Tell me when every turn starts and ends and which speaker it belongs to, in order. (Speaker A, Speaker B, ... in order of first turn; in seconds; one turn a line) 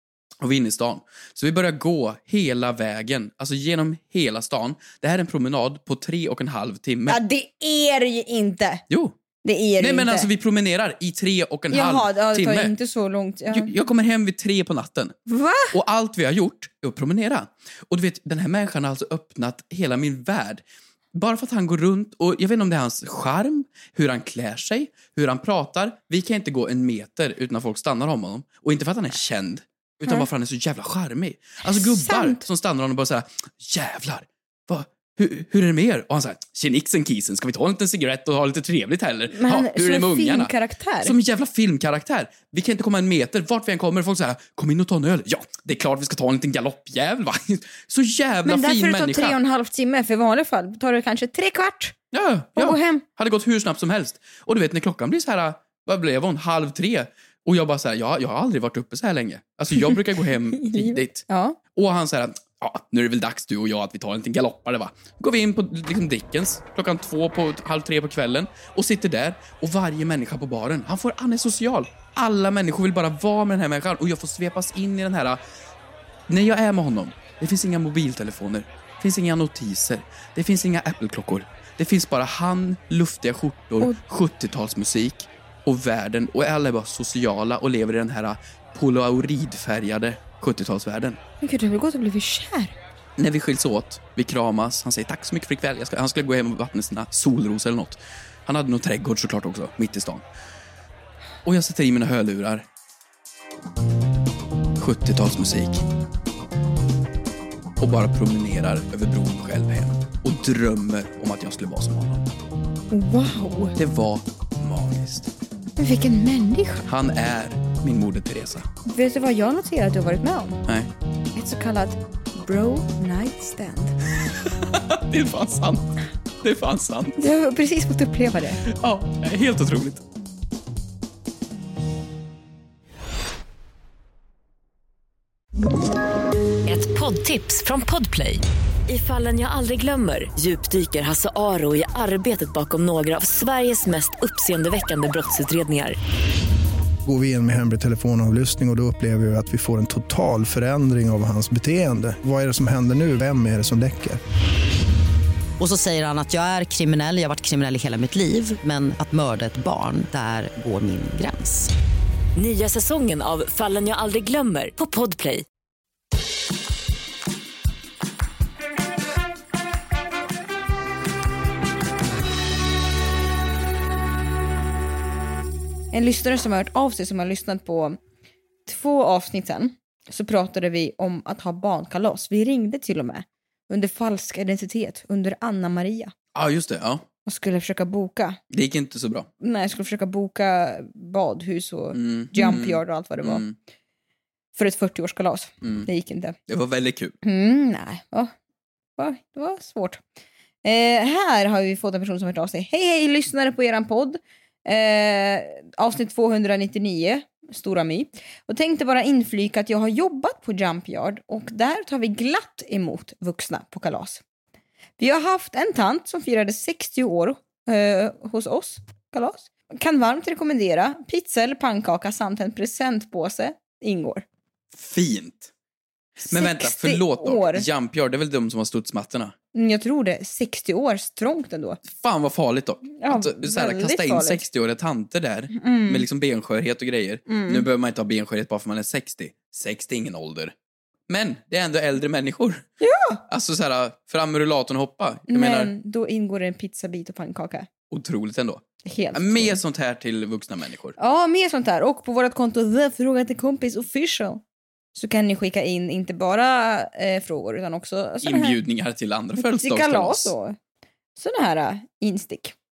Speaker A: 0.4-7.2
Speaker B: 7.1-8.8
Speaker A: 8.9-9.2
Speaker B: 9.4-10.3
Speaker A: 9.8-12.7
Speaker B: 11.7-13.7
Speaker A: 13.5-15.2
Speaker B: 15.3-15.8
Speaker A: 15.7-20.6
Speaker A: 21.1-40.5
Speaker B: 31.8-32.4
Speaker B: 39.3-41.1
Speaker A: 41.0-49.4
Speaker B: 48.5-52.0
Speaker A: 52.1-75.4
Speaker B: 52.6-53.0
Speaker B: 60.6-61.6
Speaker A: 76.3-91.2
Speaker B: 91.4-92.7
Speaker A: 93.2-100.2
Speaker A: 101.5-102.7
Speaker A: 104.8-105.9
Speaker A: 107.8-112.3
Speaker B: 112.9-113.8
Speaker A: 113.8-115.3
Speaker B: 115.8-116.9
Speaker A: 116.9-118.7
Speaker B: 118.9-120.6
Speaker B: 121.3-124.0
Speaker A: 124.3-127.2
Speaker B: 127.2-128.6
Speaker A: 128.7-130.0
Speaker C: 136.7-146.0
Speaker D: 147.0-154.2
Speaker E: 155.6-161.7
Speaker C: 162.4-165.4
Speaker B: 175.9-178.0
Speaker B: 178.7-186.1
Speaker A: 186.3-187.1
Speaker B: 187.3-188.4
Speaker A: 188.5-189.3
Speaker B: 189.4-193.4
Speaker A: 191.9-193.6
Speaker B: 194.6-196.4
Speaker A: 195.6-195.9
Speaker A: 196.5-197.2
Speaker B: 197.2-198.3
Speaker B: 199.0-200.0
Speaker B: 200.6-214.2
Speaker B: 215.0-224.2
Speaker A: 224.7-225.5
Speaker A: 226.3-229.3
Speaker B: 226.3-227.7
Speaker B: 229.5-231.8
Speaker A: 231.9-240.5
Speaker B: 233.0-234.4
Speaker B: 235.5-236.1
Speaker B: 237.3-237.7
Speaker A: 241.1-242.6
Speaker B: 242.8-243.2
Speaker A: 243.3-245.7
Speaker B: 245.3-247.7
Speaker A: 247.9-250.9
Speaker B: 248.9-249.6
Speaker B: 251.0-254.4
Speaker B: 254.9-258.6
Speaker A: 258.2-260.3
Speaker B: 259.4-260.6
Speaker B: 261.2-262.6